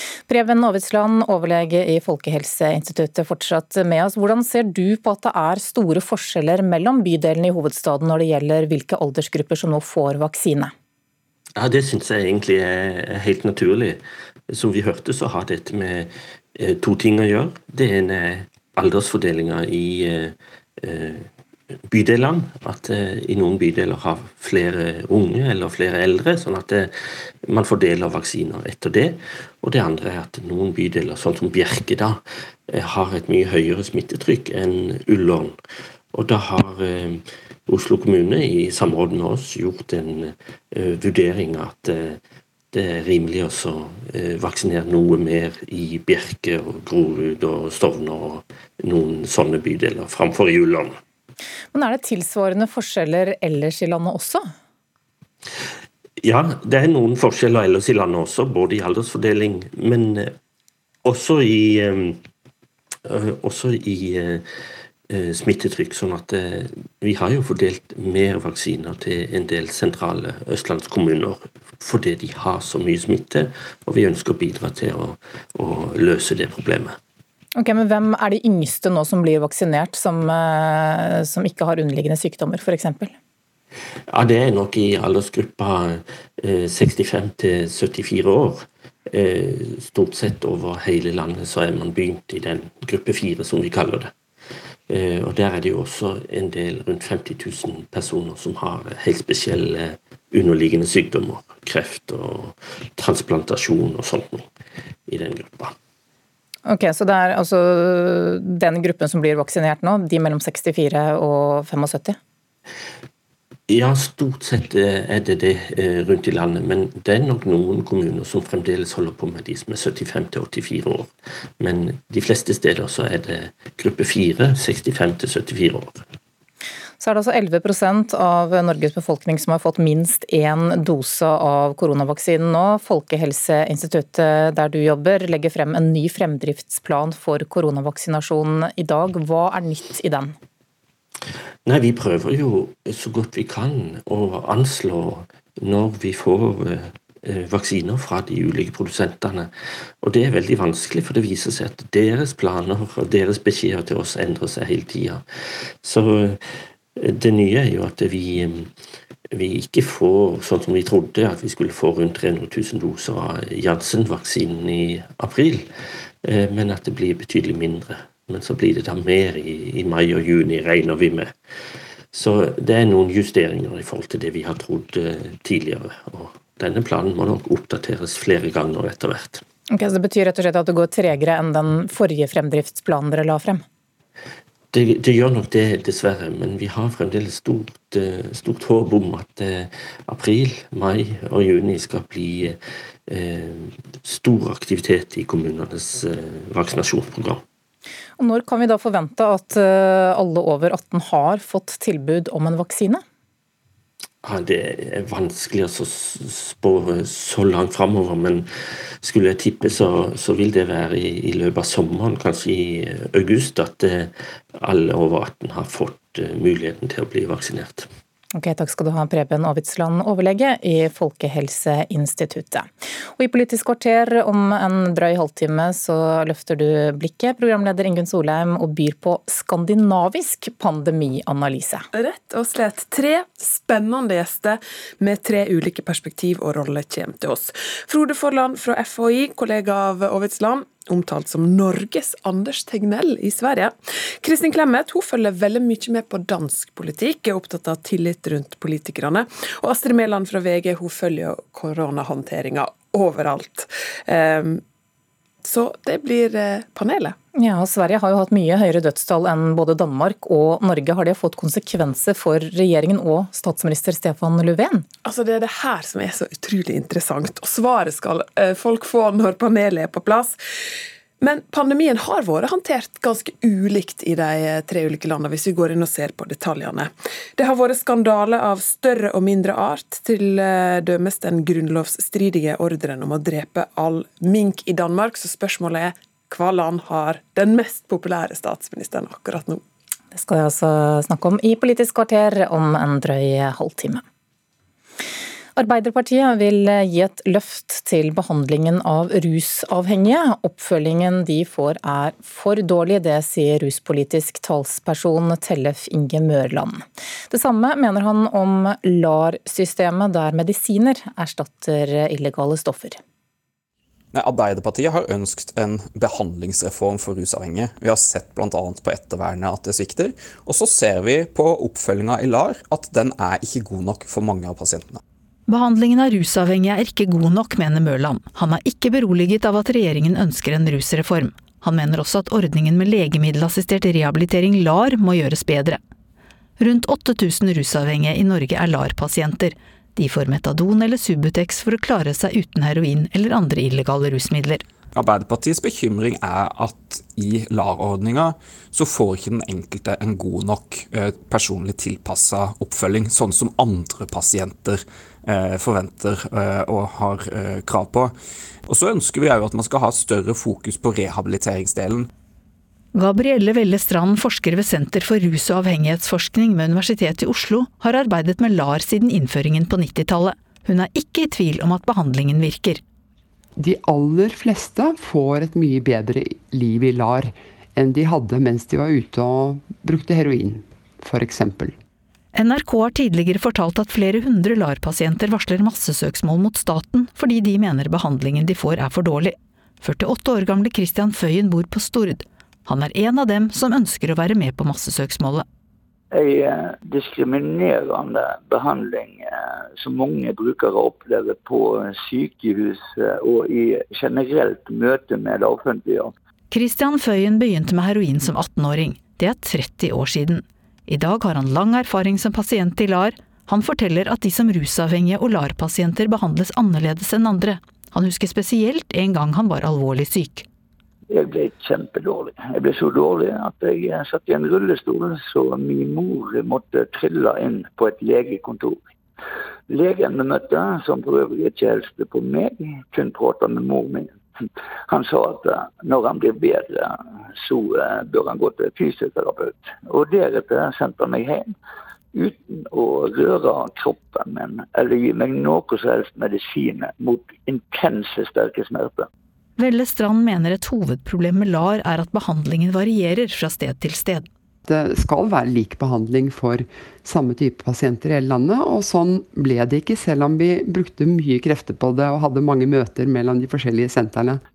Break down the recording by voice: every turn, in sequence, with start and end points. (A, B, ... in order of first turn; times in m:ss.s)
0:00.3-0:10.7 A
0:11.6-0:21.3 B
0:21.9-0:35.6 B
0:36.1-0:42.2 B
0:42.7-0:51.0 B
0:51.7-0:54.4 A
0:56.2-1:00.4 B
1:01.0-1:02.2 B
1:03.0-1:04.4 B
1:05.1-1:17.0 B
1:17.6-1:23.1 A
1:24.1-1:34.1 B
1:34.9-1:44.5 B
1:45.1-1:45.8 B
1:46.7-1:52.2 A
1:53.7-2:06.1 B
2:07.0-2:20.4 A
2:21.6-2:35.2 B
2:35.8-2:38.7 B
2:39.3-2:45.7 B
2:46.2-2:51.3 B
2:52.1-2:59.4 B
2:59.7-3:03.6 A
3:04.7-3:17.4 B
3:18.2-3:23.0 A
3:24.2-3:28.5 B
3:29.0-3:37.9 B
3:38.4-3:51.9 A
3:51.9-4:14.6 C
4:15.4-4:17.2 C
4:17.4-4:24.9 A
4:25.0-4:30.4 C
4:31.2-4:49.6 C
4:50.1-4:54.0 A
4:55.6-5:13.0 A
5:14.1-5:25.0 D
5:25.5-5:35.8 E
5:36.6-5:44.6 E
5:44.9-5:58.1 D
5:58.7-6:02.1 D
6:03.0-6:12.8 E
6:13.6-6:21.8 F
6:22.4-6:35.4 E
6:36.1-6:46.1 G
6:46.5-7:00.5 E
7:01.1-7:08.8 G
7:09.7-7:21.6 G
7:22.1-7:29.1 G
7:29.6-7:34.3 E
7:34.7-7:44.4 F